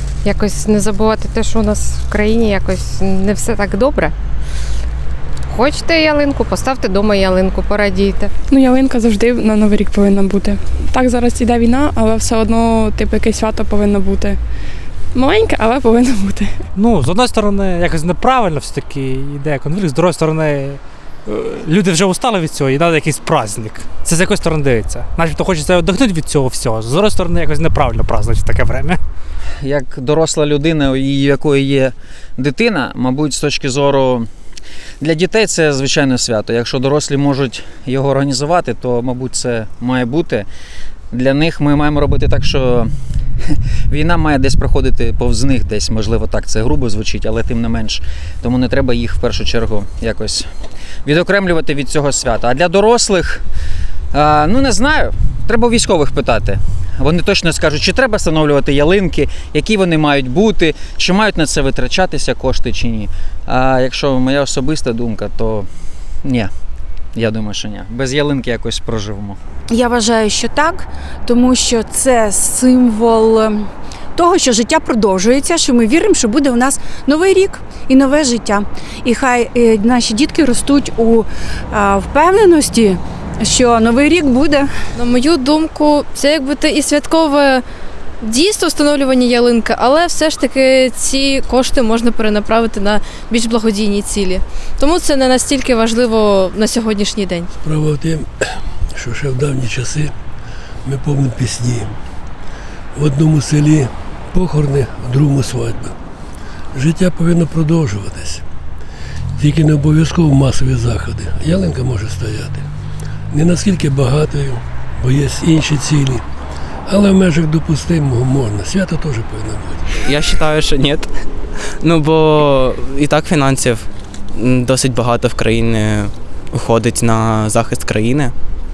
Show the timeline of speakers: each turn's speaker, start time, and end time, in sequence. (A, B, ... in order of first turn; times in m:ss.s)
0:00.2-0:04.1 A
0:05.5-0:08.3 A
0:08.5-0:14.4 B
0:15.1-0:16.6 B
0:16.8-0:29.0 C
0:29.6-0:34.3 D
0:35.0-0:40.5 D
0:41.1-0:42.9 D
0:43.4-0:50.5 D
0:51.0-0:53.4 D
0:54.1-1:05.7 D
1:06.2-1:06.5 D
1:07.1-1:09.4 D
1:09.7-1:13.6 E
1:14.2-1:24.7 E
1:24.9-1:27.6 F
1:28.2-1:37.5 F
1:37.6-1:40.1 G
1:40.8-1:41.9 G
1:42.9-1:45.9 G
1:46.7-1:48.4 G
1:49.4-1:52.6 G
1:53.3-1:56.2 G
1:56.9-1:59.8 G
2:00.0-2:01.1 H
2:01.8-2:08.3 H